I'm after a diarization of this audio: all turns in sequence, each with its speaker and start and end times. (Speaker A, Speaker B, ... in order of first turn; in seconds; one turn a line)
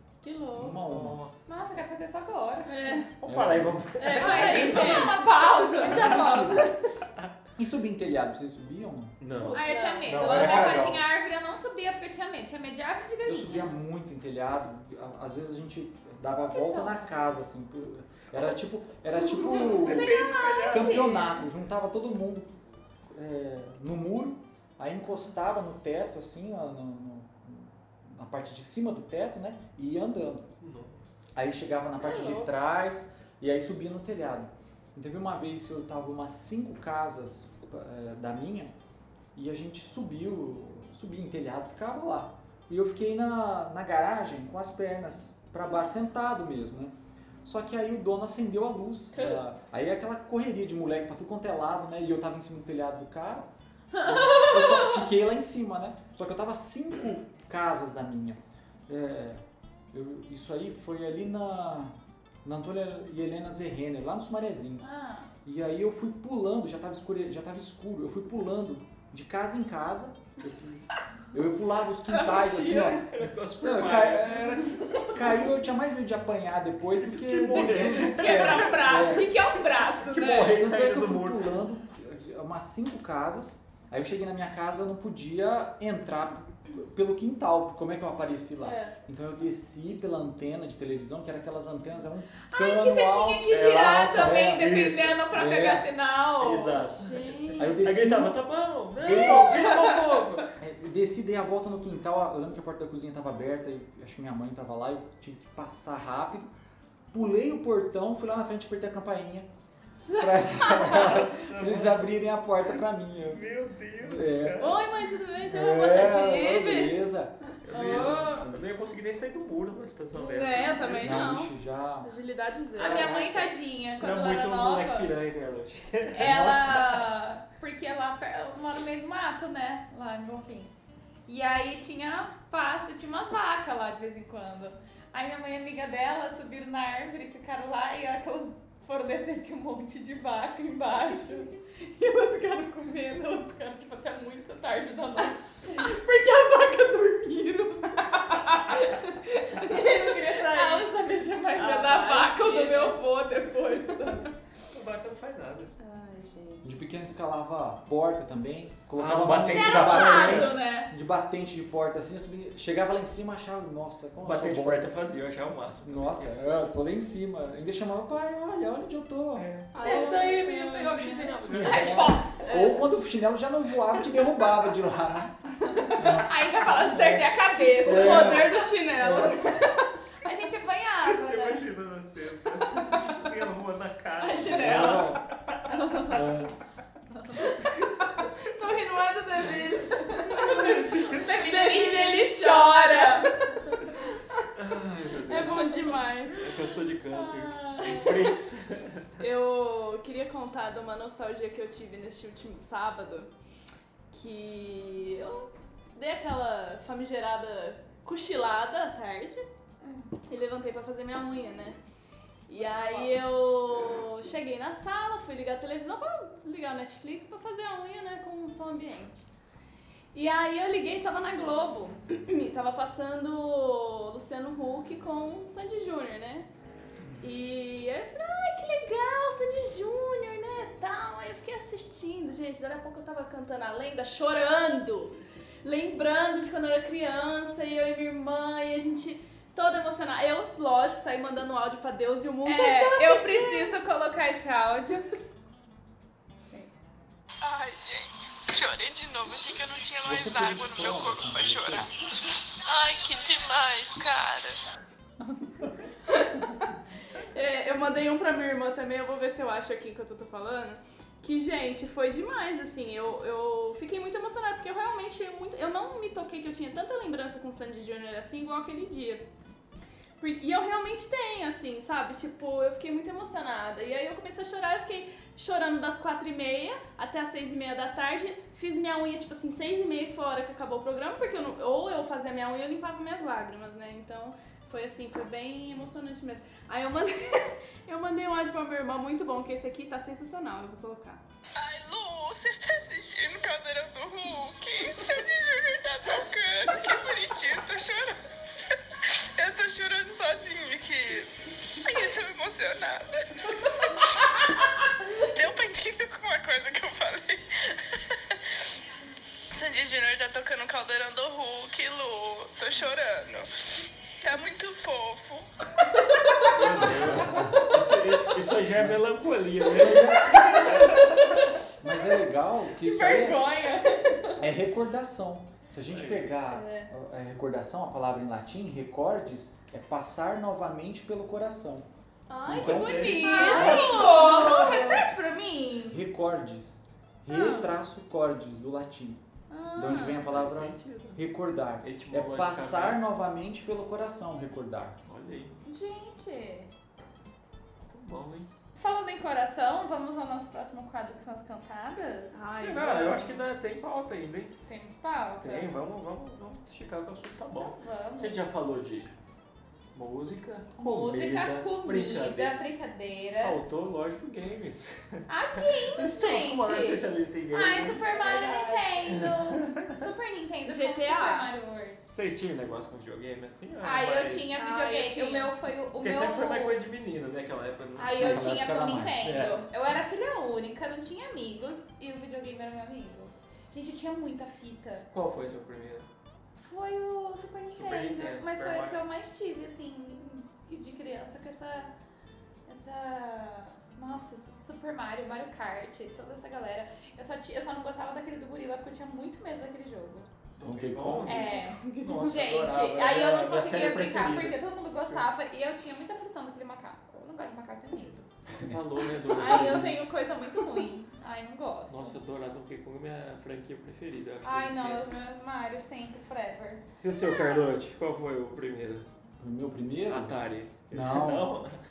Speaker A: 0.2-0.8
Speaker B: 0.6-1.2
Speaker C: 0.6-1.6
Speaker D: 1.5-3.0
Speaker A: 2.6-3.1
Speaker C: 3.2-5.2
Speaker B: 3.2-5.1
Speaker A: 4.0-6.8
Speaker D: 4.2-6.7
Speaker C: 5.8-6.6
Speaker B: 5.8-6.7
Speaker B: 7.6-9.6
Speaker C: 9.2-11.0
Speaker A: 9.4-10.6
Speaker D: 9.5-13.7
Speaker B: 10.2-11.0
Speaker B: 13.2-30.5
Speaker D: 16.5-17.3
Speaker C: 18.3-18.6
Speaker D: 19.1-21.4
Speaker C: 19.2-21.1
Speaker C: 30.6-31.1
Speaker B: 31.3-38.7
Speaker A: 32.0-32.5
Speaker B: 39.3-46.9
Speaker B: 47.4-53.5
Speaker D: 53.9-55.0
Speaker B: 54.0-64.8
Speaker D: 64.8-65.3
Speaker B: 65.4-79.3
Speaker D: 72.0-73.0
Speaker C: 72.8-75.4
Speaker C: 77.0-79.2
Speaker D: 77.5-80.6
Speaker C: 80.0-81.5
Speaker B: 80.1-93.5
Speaker A: 88.6-88.9
Speaker D: 92.5-97.0
Speaker C: 93.5-95.2
Speaker B: 94.1-95.8
Speaker C: 96.4-100.5
Speaker A: 97.0-97.8
Speaker B: 97.6-98.3
Speaker B: 99.0-99.7
Speaker D: 99.1-99.8
Speaker B: 100.6-106.5
Speaker B: 107.1-109.5
Speaker A: 109.9-111.2
Speaker B: 110.2-114.7
Speaker C: 110.7-112.1
Speaker C: 113.2-114.8
Speaker A: 114.6-118.0
Speaker B: 115.4-117.3
Speaker C: 117.6-121.3
Speaker D: 117.7-118.5
Speaker B: 117.9-118.3
Speaker A: 120.1-121.5
Speaker D: 120.4-120.9
Speaker B: 121.0-122.1
Speaker A: 122.0-123.2
Speaker D: 122.8-125.1
Speaker C: 122.8-126.6
Speaker D: 126.1-130.7
Speaker B: 126.2-127.0
Speaker D: 131.3-154.3
Speaker C: 149.6-150.9
Speaker C: 151.6-152.4
Speaker A: 152.3-152.9
Speaker A: 153.9-154.2
Speaker C: 154.7-155.7
Speaker A: 155.8-156.7
Speaker B: 156.6-164.9
Speaker C: 159.0-160.5
Speaker D: 159.4-160.9
Speaker C: 164.2-167.1
Speaker B: 165.8-169.5
Speaker C: 169.3-172.2
Speaker A: 169.7-171.3
Speaker D: 169.8-170.6
Speaker B: 171.4-175.3
Speaker D: 171.6-172.6
Speaker D: 175.8-178.8
Speaker B: 175.9-179.5
Speaker A: 177.8-179.9
Speaker D: 180.2-181.7
Speaker C: 181.0-186.2
Speaker D: 184.2-185.2
Speaker B: 184.5-185.2
Speaker B: 186.0-186.5
Speaker A: 188.3-194.5
Speaker D: 190.0-193.4
Speaker C: 190.5-191.2
Speaker C: 194.5-199.1
Speaker A: 195.2-196.6
Speaker D: 195.5-195.9
Speaker D: 197.1-198.3
Speaker A: 197.5-198.3
Speaker A: 199.2-203.3
Speaker A: 204.1-209.5
Speaker D: 209.8-210.2
Speaker A: 210.3-211.8
Speaker A: 212.5-219.3
Speaker D: 212.6-213.2
Speaker A: 220.1-226.5
Speaker A: 227.2-243.8
Speaker D: 242.4-245.1
Speaker A: 247.4-251.6
Speaker E: 249.1-251.8
Speaker B: 250.0-251.9
Speaker A: 252.7-254.5
Speaker E: 252.8-254.2
Speaker A: 256.1-269.2
Speaker A: 270.2-291.2
Speaker E: 291.6-298.1
Speaker A: 294.8-295.2
Speaker E: 299.1-301.3
Speaker E: 301.8-304.6
Speaker E: 305.3-308.7
Speaker E: 309.5-313.5
Speaker E: 314.2-315.5
Speaker C: 316.4-321.5
Speaker D: 316.5-317.1
Speaker B: 316.8-317.7
Speaker B: 318.8-319.0
Speaker B: 319.6-320.8
Speaker D: 320.2-321.0
Speaker B: 321.8-323.4
Speaker D: 322.8-324.4
Speaker B: 324.4-331.9
Speaker C: 325.9-326.3
Speaker A: 326.5-326.9
Speaker A: 332.3-335.1
Speaker B: 332.4-333.3
Speaker C: 332.5-334.6
Speaker D: 333.1-336.0
Speaker B: 335.9-339.2
Speaker D: 337.3-337.7
Speaker D: 339.5-340.2
Speaker B: 339.7-345.0
Speaker C: 340.2-341.2
Speaker C: 341.8-343.0
Speaker C: 345.0-345.6
Speaker D: 345.6-346.7
Speaker C: 347.9-348.5
Speaker D: 348.8-352.4
Speaker A: 352.3-353.4
Speaker C: 352.6-354.5
Speaker D: 354.6-355.7
Speaker C: 355.4-359.1
Speaker D: 357.6-358.5
Speaker C: 359.9-362.6
Speaker D: 360.8-363.6
Speaker C: 363.3-368.2
Speaker D: 365.3-372.1
Speaker A: 367.9-369.3
Speaker C: 369.1-370.0
Speaker A: 370.6-371.5
Speaker C: 372.0-374.5
Speaker D: 373.8-376.8
Speaker A: 374.5-375.5
Speaker C: 376.0-378.6
Speaker D: 378.0-385.1
Speaker B: 378.1-379.4
Speaker C: 379.2-379.7
Speaker C: 385.1-386.1
Speaker D: 386.6-391.9
Speaker C: 387.7-389.0
Speaker D: 392.6-400.3
Speaker C: 400.6-405.3
Speaker B: 400.6-401.4
Speaker D: 401.2-408.3
Speaker A: 401.4-402.3
Speaker C: 408.5-410.0
Speaker D: 409.0-412.2
Speaker C: 411.9-415.1
Speaker D: 414.4-417.8
Speaker C: 417.0-419.1
Speaker B: 419.4-420.4
Speaker C: 420.1-421.8
Speaker B: 420.9-421.6